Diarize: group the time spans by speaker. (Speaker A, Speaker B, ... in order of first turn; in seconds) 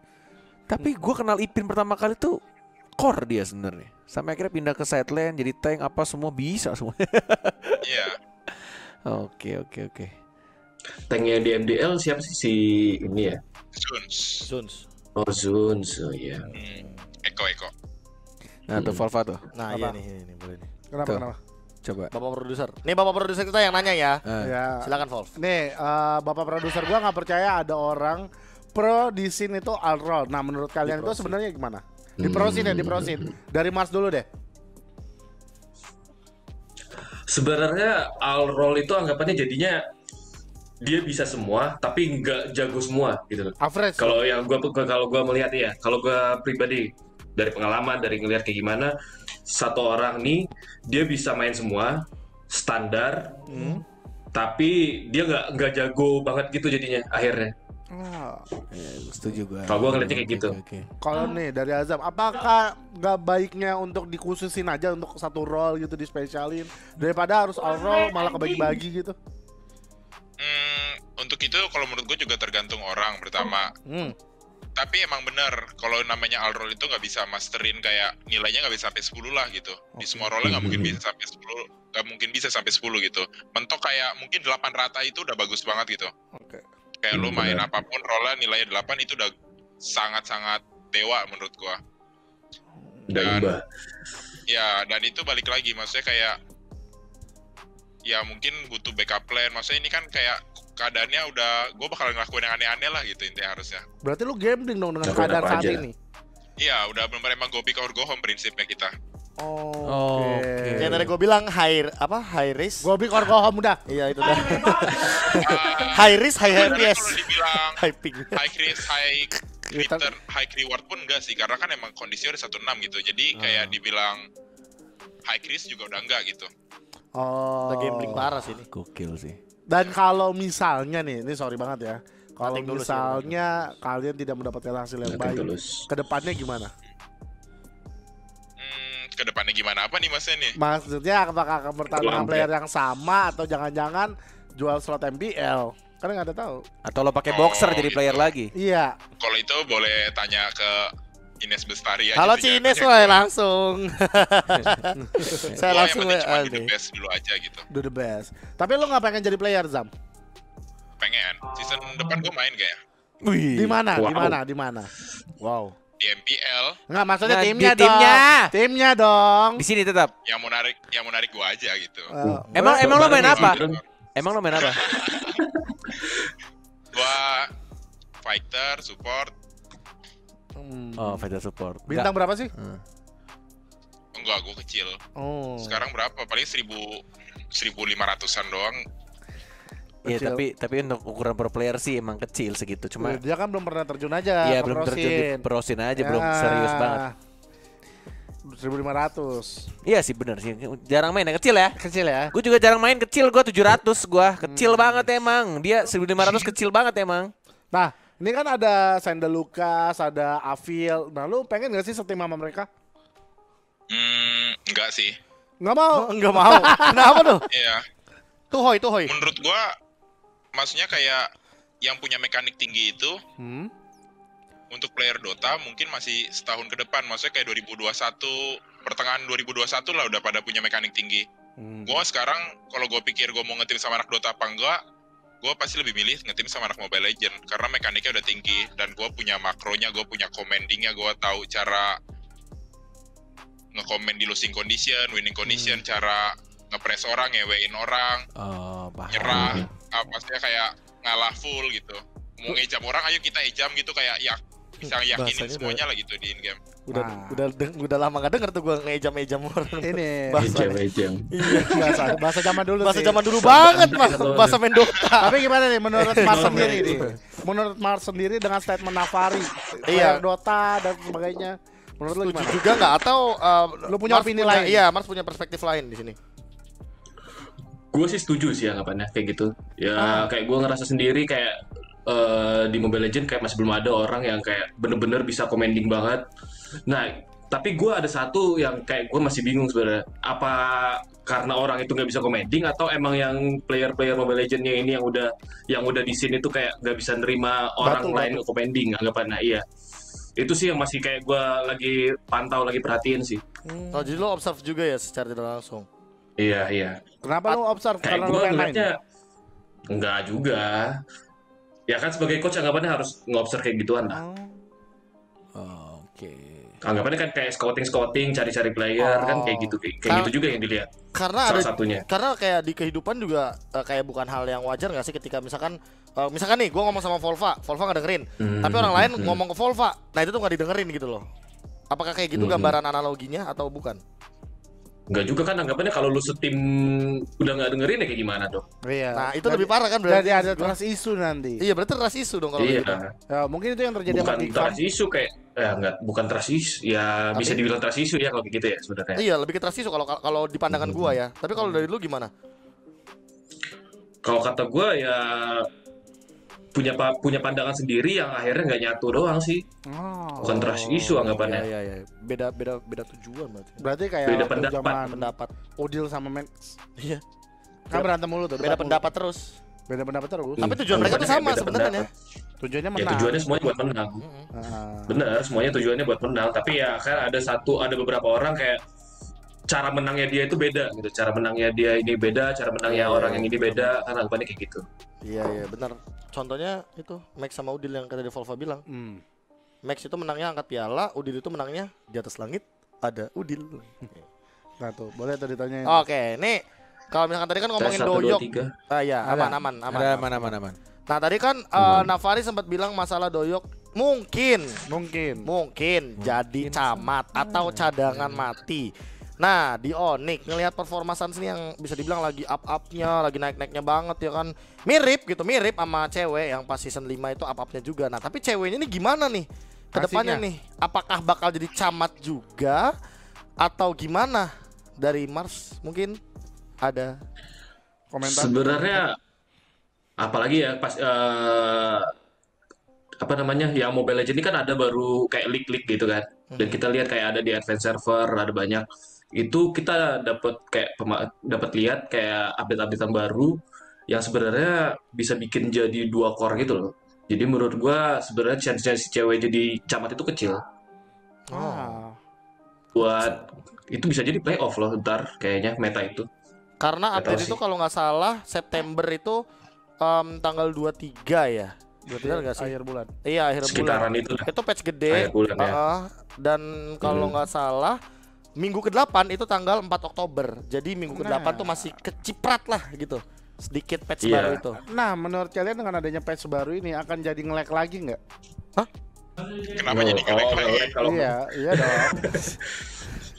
Speaker A: 0.7-2.4, 3.0-7.9, 8.5-10.1, 18.7-19.5, 21.8-22.1, 24.2-24.5, 58.7-60.9, 109.8-111.1, 128.7-129.4, 146.8-148.5, 163.2-163.8, 167.2-168.5, 169.6-170.1, 172.5-173.6, 174.2-174.8, 181.0-182.8, 190.0-193.2, 194.4-197.0, 199.8-201.8, 202.3-207.3, 248.4-249.7, 315.5-316.7, 399.9-400.8, 406.2-408.4
Speaker B: 7.8-8.2, 13.7-14.4, 16.5-17.7, 70.4-73.7, 74.8-86.1, 87.0-89.3, 89.8-91.8, 93.1-93.5, 94.5-96.4, 98.0-103.8, 106.6-108.9, 115.4-117.8, 118.3-124.2, 125.2-126.5, 138.6-140.5, 147.3-148.3, 149.2-150.9, 151.4-153.2, 155.6-157.6, 161.0-162.8, 166.0-166.8, 170.2-172.1, 173.0-173.8, 174.5-175.4, 176.9-177.5, 178.2-179.3, 184.1-185.0, 185.6-188.8, 213.9-215.2, 217.5-217.8, 219.1-219.6, 220.5-221.2, 221.8-223.2, 224.7-231.3, 231.8-234.8, 235.4-241.9, 243.7-248.2, 249.1-256.6, 479.7-481.0
Speaker C: 11.0-13.4, 15.2-16.5, 18.7-19.0, 32.2-33.2, 37.3-39.8, 40.8-48.9, 49.5-53.6, 54.3-57.5, 59.7-60.5, 80.4-81.0, 87.1-87.6, 93.1-93.6, 105.0-105.8, 135.0-135.9, 141.9-142.5, 163.9-164.4, 172.8-173.8, 174.8-176.3, 249.2-249.7, 260.4-261.9, 263.3-264.6, 266.1-267.0, 277.9-286.2, 286.8-299.6, 300.4-303.4, 306.4-307.0, 308.0-308.9, 309.9-311.0, 311.9-314.2, 316.8-320.9, 321.4-322.0, 328.4-329.4, 332.4-332.8, 335.1-338.6, 342.6-343.1, 344.1-349.2, 350.7-351.1, 354.2-355.7, 356.7-359.6, 360.4-361.7, 364.2-365.0, 370.6-372.1, 372.9-374.2, 375.1-378.8, 379.7-384.8, 397.8-398.7, 401.8-402.1, 428.2-429.2, 430.2-432.1, 433.2-450.6, 452.9-456.3, 457.1-457.6, 463.6-464.5, 465.1-465.8, 467.0-467.4, 474.2-474.6, 479.9-483.1
Speaker D: 14.4-14.8, 19.5-20.7, 22.1-24.2, 24.8-25.4, 30.8-31.4, 110.8-112.9, 113.9-118.5, 127.6-128.7, 132.4-133.4, 152.2-156.7, 172.3-172.6, 216.0-217.4, 218.5-219.1, 254.8-255.8, 256.9-260.8, 261.3-267.1, 269.9-270.2, 272.1-276.2, 303.9-305.9, 320.1-320.3, 321.1-331.2, 331.9-334.0, 339.1-340.8, 341.6-343.0, 347.3-347.6, 349.1-352.3, 360.5-363.8, 365.0-365.5, 367.9-369.6, 370.6-372.1, 374.2-374.5, 382.8-384.0, 385.2-388.8, 389.8-394.2, 395.9-396.6, 397.1-400.5, 401.1-404.8, 405.4-422.9, 423.6-426.2, 426.8-427.1, 436.5-436.8, 451.5-452.0, 456.8-459.4, 460.0-462.7, 463.2-468.0, 468.6-474.8
Speaker E: 19.7-20.0, 20.9-21.4, 24.4-34.2, 43.6-44.2, 53.5-53.8, 57.9-58.5, 61.0-69.2, 73.9-74.1, 80.0-80.3, 86.3-86.6, 92.8-93.1, 104.0-105.9, 109.4-111.1, 112.8-115.6, 119.7-120.1, 127.1-128.2, 129.7-136.7, 140.6-146.6, 148.5-149.0, 155.0-155.5, 157.7-159.9, 163.5-165.7, 166.9-169.6, 172.1-173.4, 180.6-181.2, 181.9-182.5, 185.2-185.8, 190.0-190.4, 193.0-197.1, 198.5-199.7, 201.8-202.3, 204.4-205.1, 207.7-212.7, 215.6-217.0, 223.4-223.7, 231.6-232.0, 256.9-257.4, 259.8-260.6, 261.5-263.2, 265.2-272.9, 273.9-274.8, 280.0-280.3, 297.8-298.4, 303.6-304.2, 307.2-308.9, 314.1-314.6, 319.0-319.8, 338.9-341.6, 343.3-344.8, 351.6-351.8, 359.9-360.8, 363.8-366.7, 367.9-369.1, 369.9-370.6, 372.6-373.5, 374.5-375.2, 388.9-389.2, 394.8-396.0, 399.2-399.6, 404.9-405.5, 419.9-420.4, 428.1-429.0, 451.5-452.2, 462.1-463.1, 471.1-471.9, 474.9-478.2, 481.0-482.3